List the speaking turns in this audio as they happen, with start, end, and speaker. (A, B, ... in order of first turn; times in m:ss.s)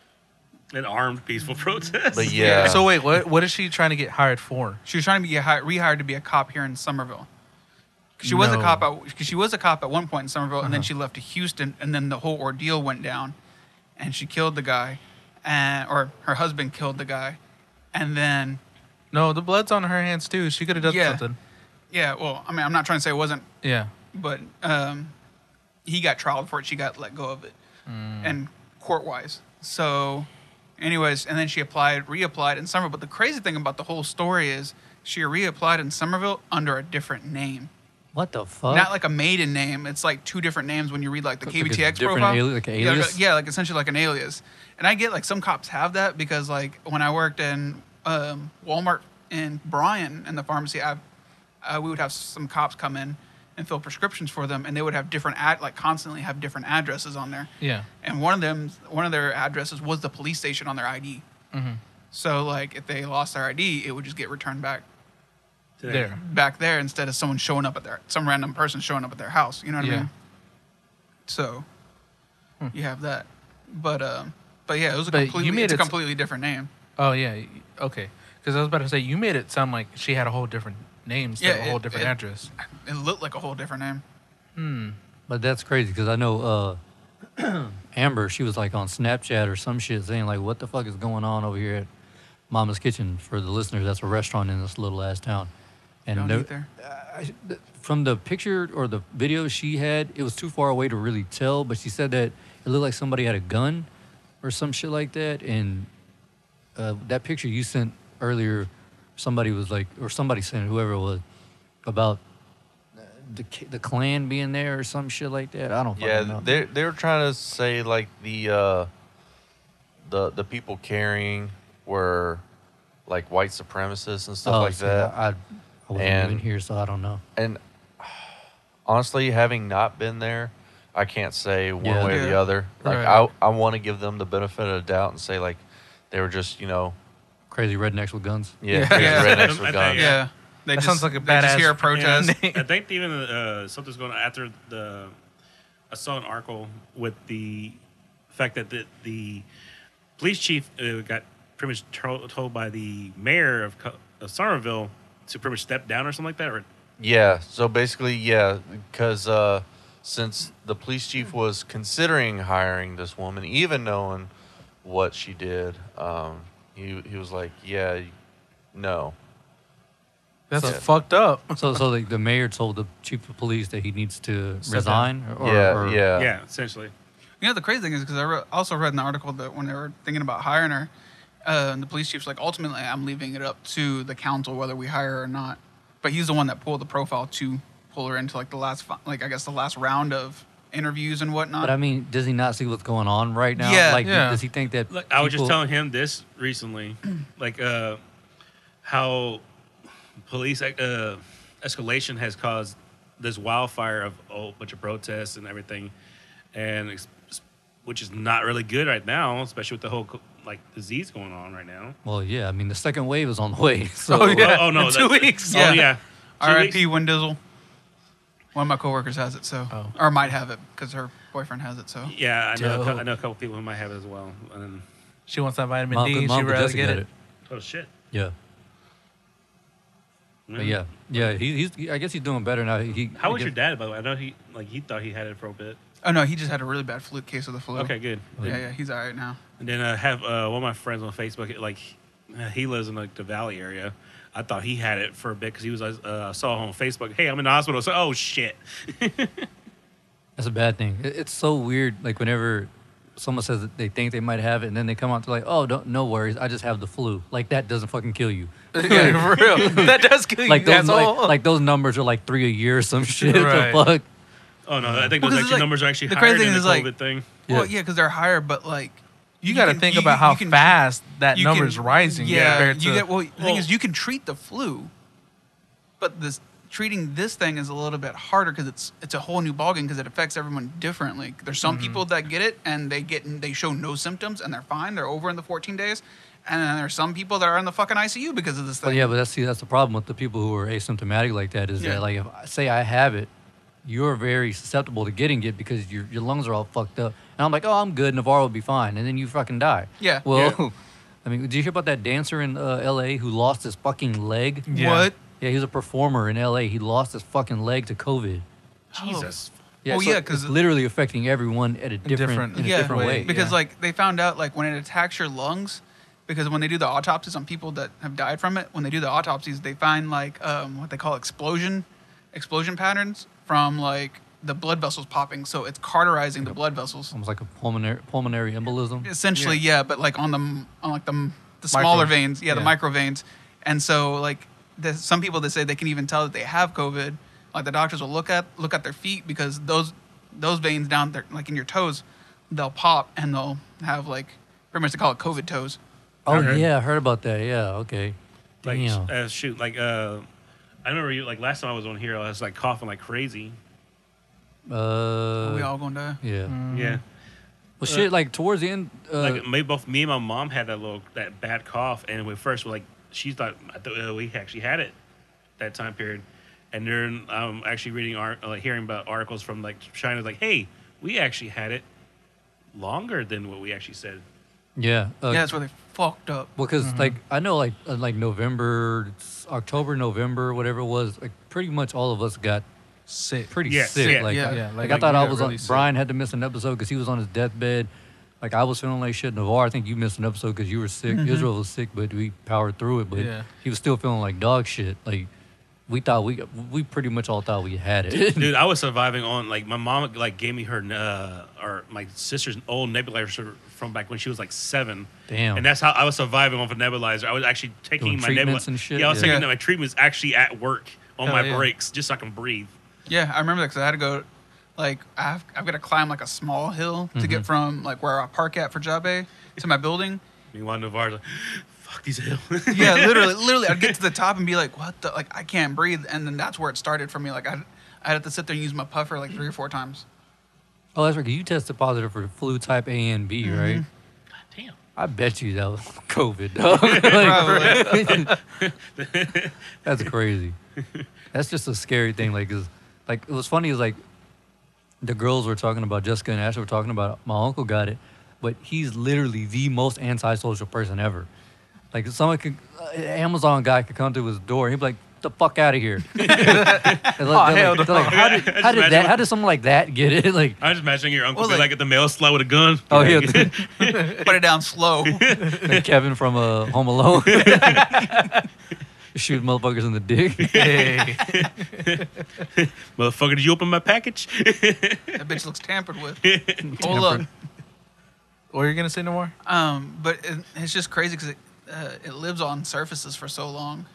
0:00.7-0:02.7 A
0:02.1-0:03.0 B
0:02.2-0:02.8 C
0:02.4-0:04.8 D
0:04.9-0:07.3 C
0:08.2-0:13.4 C
0:08.2-0:08.8 D
0:14.0-0:17.4 C
0:17.9-0:18.6 C
0:19.1-0:21.4 D
0:20.8-0:21.2 C
0:21.9-0:23.5 C
0:23.6-0:23.9 D
0:24.1-0:25.1 C
0:25.9-0:27.6 C
0:27.9-0:28.4 D
0:28.2-0:37.7 C
0:38.2-0:38.9 E
0:38.7-0:51.0 C
0:41.4-0:43.2 E
0:51.6-0:57.5 C
0:57.6-0:57.9 D
0:58.0-1:01.2 C
1:01.5-1:01.8 D
1:02.1-1:04.8 C
1:05.8-1:06.2 A
1:05.9-1:06.2 D
1:06.2-1:10.1 C
1:09.8-1:10.1 D
1:11.3-1:11.6 C
1:12.7-1:16.7 C
1:15.1-1:16.0 D
1:17.0-1:22.5 D
1:21.4-1:24.0 C
1:24.6-1:25.0 D
1:25.3-1:26.8 E
1:27.4-1:31.9 E
1:32.5-1:35.5 E
1:36.1-1:43.9 E
1:36.2-1:36.7 C
1:44.4-1:45.9 E
1:46.8-1:51.2 E
1:51.9-1:52.2 E
1:53.0-1:56.6 E
1:56.0-1:58.9 B
2:00.0-2:02.4 B
2:03.1-2:05.1 B
2:04.4-2:07.2 E
2:06.0-2:06.4 B
2:07.4-2:08.3 B
2:08.9-2:17.0 B
2:11.8-2:12.2 E
2:12.1-2:12.4 C
2:12.8-2:13.3 D
2:17.5-2:18.6 E
2:18.6-2:20.2 B
2:18.7-2:19.5 D
2:18.9-2:22.4 C
2:19.0-2:20.2 A
2:20.8-2:22.7 D
2:21.9-2:25.1 A
2:25.9-2:27.8 A
2:28.3-2:29.5 A
2:30.2-2:36.7 A
2:37.0-2:44.3 B
2:44.8-2:48.1 B
2:48.7-2:49.2 B
2:50.5-2:51.8 D
2:50.6-2:50.9 B
2:51.5-2:56.0 E
2:54.6-2:55.1 D
2:55.4-2:56.3 B
2:56.2-2:56.9 A
2:57.4-3:00.9 C
3:01.5-3:11.7 C
3:11.6-3:15.6 E
3:13.6-3:14.0 C
3:14.0-3:14.4 D
3:14.9-3:18.0 A
3:18.8-3:19.4 A
3:20.2-3:25.9 A
3:26.5-3:32.0 A
3:32.0-3:34.6 E
3:34.1-3:35.7 D
3:34.3-3:36.8 A
3:35.5-3:37.4 C
3:38.6-3:42.1 C
3:39.7-3:40.0 D
3:42.1-3:44.8 A
3:42.6-3:43.0 D
3:45.3-3:47.1 D
3:45.9-3:47.1 E
3:47.5-3:47.9 A
3:50.5-3:51.3 A
3:50.6-3:53.5 E
3:53.2-3:55.8 A
3:56.0-3:59.4 C
3:57.8-3:58.5 A
3:58.4-3:58.6 E
3:59.6-4:09.5 A
4:10.4-4:19.9 E
4:18.7-4:21.4 D
4:20.4-4:24.0 E
4:23.2-4:23.9 D
4:24.7-4:27.3 A
4:25.2-4:26.9 C
4:27.5-4:30.8 C
4:29.4-4:33.1 D
4:31.3-4:34.9 C
4:32.3-4:32.7 A
4:33.4-4:33.7 A
4:36.0-4:49.1 C
4:41.6-4:42.0 D
4:48.8-4:53.3 E
4:53.8-5:00.7 E
5:00.0-5:00.2 C
5:00.3-5:00.6 A
5:01.2-5:04.7 E
5:04.7-5:05.1 D
5:04.7-5:05.2 C
5:05.4-5:08.4 E
5:08.9-5:09.5 A
5:08.9-5:09.4 C
5:09.8-5:13.3 E
5:09.9-5:10.6 C
5:12.0-5:13.6 D
5:12.6-5:27.1 C
5:27.1-5:29.1 E
5:29.0-5:45.8 C
5:29.4-5:29.6 D
5:31.7-5:32.7 D
5:46.2-5:49.1 E
5:46.3-5:46.7 A
5:48.6-5:50.2 A
5:50.8-5:53.6 A
5:54.7-5:55.7 E
5:55.4-5:56.2 C
5:56.2-5:56.6 E
5:56.5-5:57.0 D
5:56.7-5:57.0 A
5:57.8-5:59.4 E
5:59.2-6:05.0 A
6:05.6-6:11.8 A
6:12.7-6:14.2 A
6:14.8-6:15.5 E
6:15.3-6:16.5 C
6:16.6-6:22.6 E
6:16.8-6:17.2 D
6:23.1-6:23.6 D
6:23.5-6:27.9 E
6:23.7-6:24.5 A
6:24.1-6:25.9 D
6:24.2-6:24.6 C
6:28.4-6:35.3 E
6:31.1-6:31.5 C
6:33.1-6:33.5 D
6:35.9-6:38.5 E
6:38.3-6:52.7 A
6:45.3-6:45.7 E
6:48.0-6:49.4 E
6:49.2-6:49.5 C
6:51.3-6:51.7 D
6:53.1-6:54.3 C
6:54.8-7:00.2 C
6:57.2-6:57.5 E
7:00.5-7:04.0 A
7:02.7-7:10.0 C
7:11.0-7:13.8 E
7:13.4-7:13.8 C
7:14.5-7:14.8 A
7:15.0-7:18.3 E
7:16.7-7:20.1 A
7:17.0-7:18.0 C
7:17.3-7:18.4 D
7:19.8-7:20.6 E
7:20.8-7:21.1 A
7:21.3-7:24.0 E
7:25.0-7:31.3 E
7:31.9-7:40.6 E
7:36.2-7:37.2 A
7:36.3-7:38.2 D
7:37.9-7:39.2 A
7:40.6-7:44.3 A
7:41.4-7:41.7 C
7:42.9-7:43.6 E
7:44.2-7:45.4 C
7:45.0-7:45.6 A
7:45.6-7:47.8 E
7:47.3-7:48.1 A
7:49.2-7:50.7 E
7:50.4-7:55.3 A
7:50.5-7:51.4 D
7:55.1-7:56.2 C
7:56.2-7:57.0 A
7:56.6-7:57.3 E
7:56.8-7:57.3 C
7:58.5-7:59.3 D
7:59.4-8:03.9 C